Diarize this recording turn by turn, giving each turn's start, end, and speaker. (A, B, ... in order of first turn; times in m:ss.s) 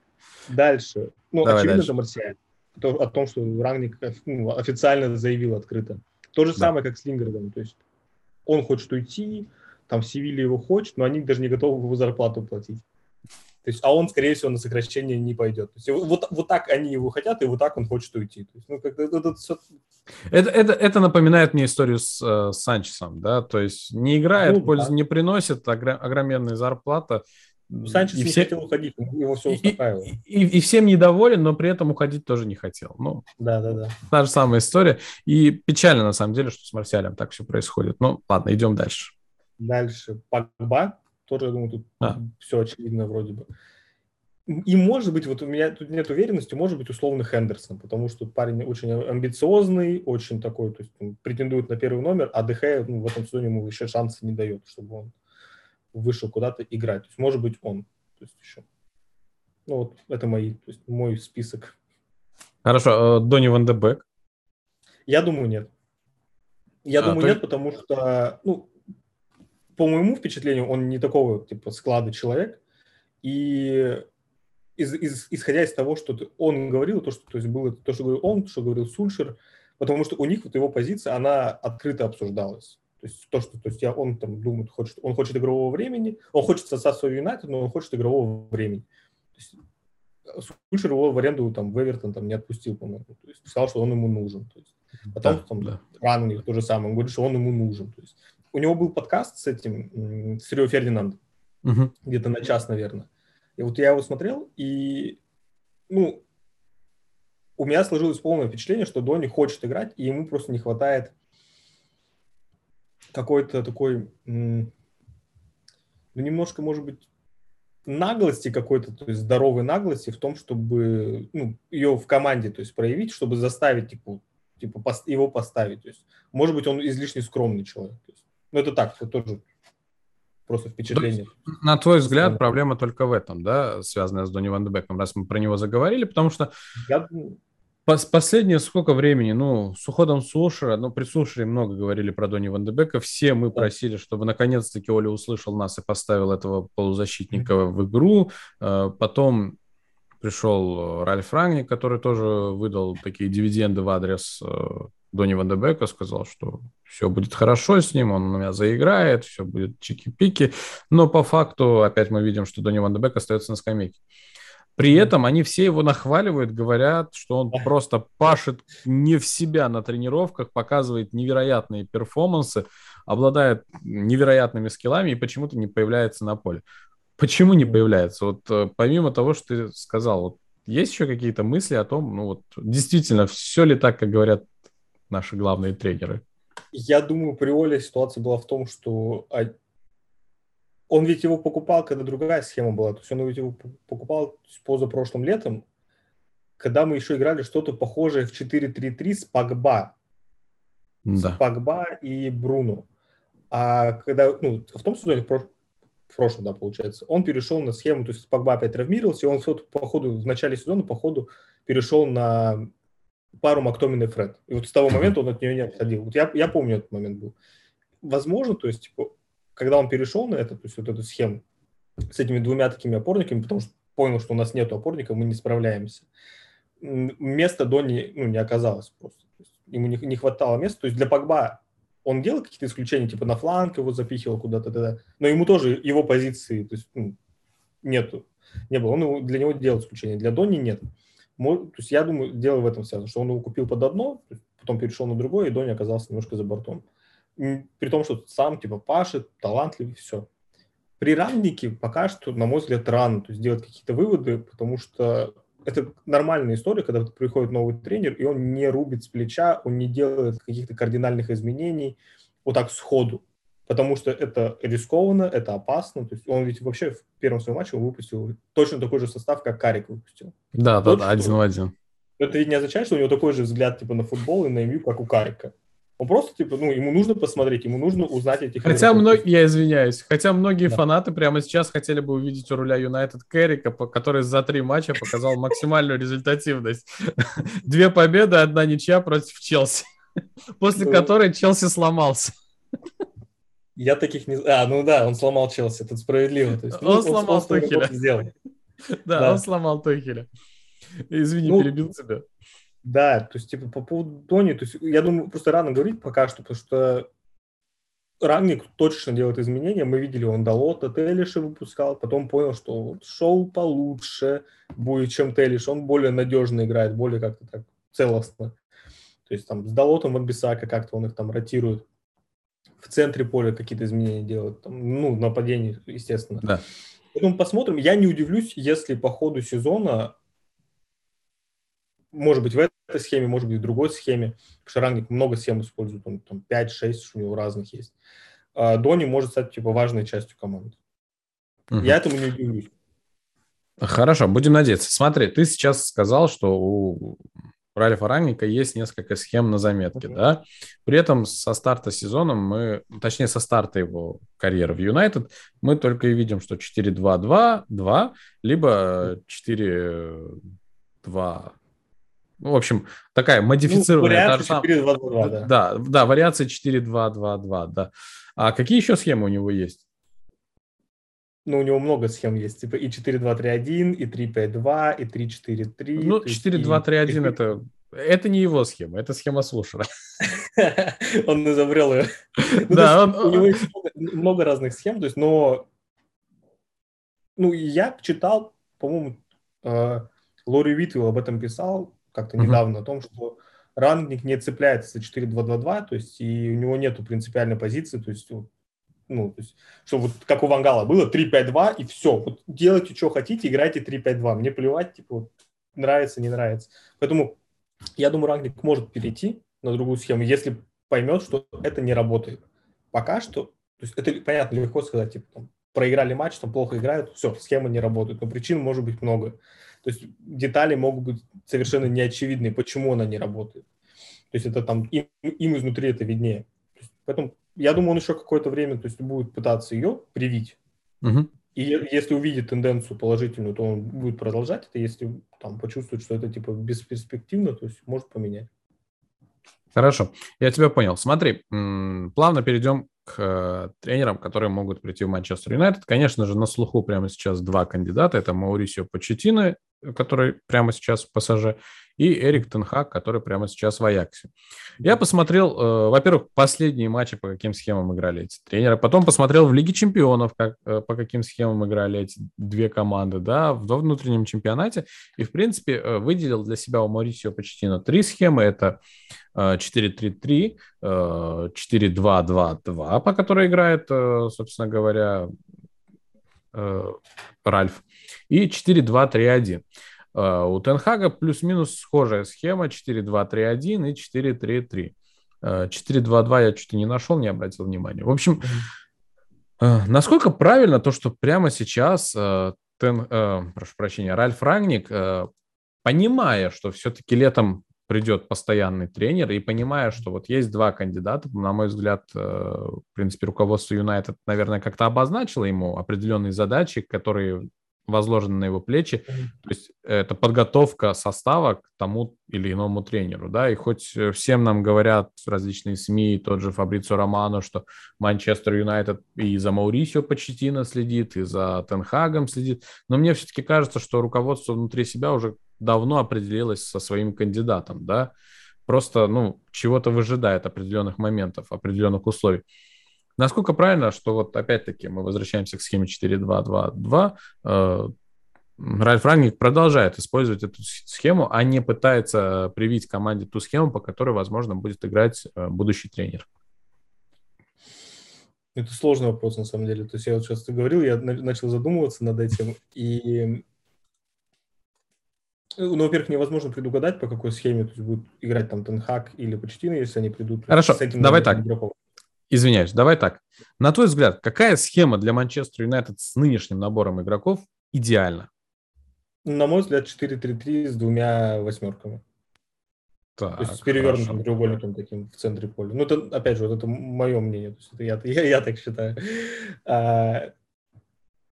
0:00.5-0:07.8 A
0:01.4-0:01.9 B
0:08.4-0:12.8 A
0:13.6-0:19.6 A
0:20.3-0:28.5 B
0:24.4-0:24.9 A
0:27.8-0:30.1 A
0:29.5-0:33.2 B
0:33.4-0:34.0 A
0:34.1-0:39.1 B
0:39.6-0:43.5 A
0:44.5-0:55.1 A
0:55.9-0:58.6 A
0:59.6-1:01.7 A
1:02.6-1:04.0 B
1:05.1-1:05.7 A
1:06.8-1:08.7 A
1:07.0-1:07.4 B
1:09.8-1:12.6 A
1:13.2-1:14.0 A
1:14.8-1:28.8 A
1:30.3-1:41.2 A
1:35.2-1:35.8 B
1:41.6-1:41.9 B
1:42.0-1:45.2 A
1:45.9-1:46.2 A
1:47.6-1:51.1 A
1:53.1-1:54.7 A
1:56.1-1:57.0 A
1:57.8-2:09.4 A
2:10.5-2:11.3 A
2:10.9-2:16.5 B
2:12.1-2:12.4 A
2:16.8-2:17.4 A
2:17.8-2:29.6 B
2:30.2-2:44.0 B
2:44.8-2:56.6 B
2:57.2-3:04.5 B
3:05.1-3:06.2 B
3:06.7-3:09.5 A
3:10.9-3:15.6 A
3:16.6-3:19.9 A
3:21.0-3:21.4 B
3:21.2-3:22.9 A
3:23.5-3:25.5 A
3:26.1-3:32.7 A
3:33.4-3:37.3 A
3:38.0-3:41.4 A
3:42.1-3:46.1 A
3:46.8-3:57.2 A
3:57.8-4:00.8 A
4:01.4-4:06.8 A
4:07.4-4:10.3 A
4:11.0-4:31.4 A
4:30.5-4:31.7 B
4:32.2-4:39.2 A
4:38.6-4:49.9 B
4:50.6-4:52.3 B
4:50.8-4:51.1 A
4:53.8-4:58.3 A
4:56.7-4:57.9 B
4:59.0-5:00.3 B
4:59.1-4:59.4 A
5:01.1-5:02.2 B
5:01.4-5:01.7 A
5:02.8-5:07.1 A
5:08.2-5:18.6 A
5:19.3-5:21.8 A
5:22.8-5:26.5 A
5:27.1-5:30.1 A
5:32.1-5:37.9 A
5:38.5-5:40.8 A
5:41.7-5:42.0 B
5:41.8-5:42.7 A
5:43.8-5:47.2 B
5:47.7-6:00.4 B
6:01.0-6:01.5 B
6:02.4-6:04.7 B
6:03.6-6:05.5 A
6:05.2-6:09.8 B
6:11.4-6:17.5 A
6:16.0-6:19.9 B
6:20.3-6:25.7 A
6:22.4-6:23.6 B
6:27.4-6:38.5 A
6:39.1-6:47.4 A
6:48.0-6:52.4 A
6:52.9-7:03.6 A
7:04.3-7:06.5 A
7:07.0-7:10.6 A
7:11.0-7:11.3 B
7:11.5-7:18.5 A
7:19.7-7:34.3 B
7:34.8-7:48.8 B
7:49.3-7:55.3 B
7:56.5-8:08.5 B
8:08.4-8:08.7 A
8:09.6-8:15.3 B
8:15.8-8:48.1 B
8:48.6-8:52.4 B
8:53.2-8:57.9 B
8:58.6-9:06.2 B
9:08.5-9:13.4 A
9:15.6-9:21.7 A
9:20.5-9:21.4 B
9:22.3-9:28.3 B
9:29.2-9:32.0 A
9:33.2-9:34.2 B
9:33.4-9:40.3 A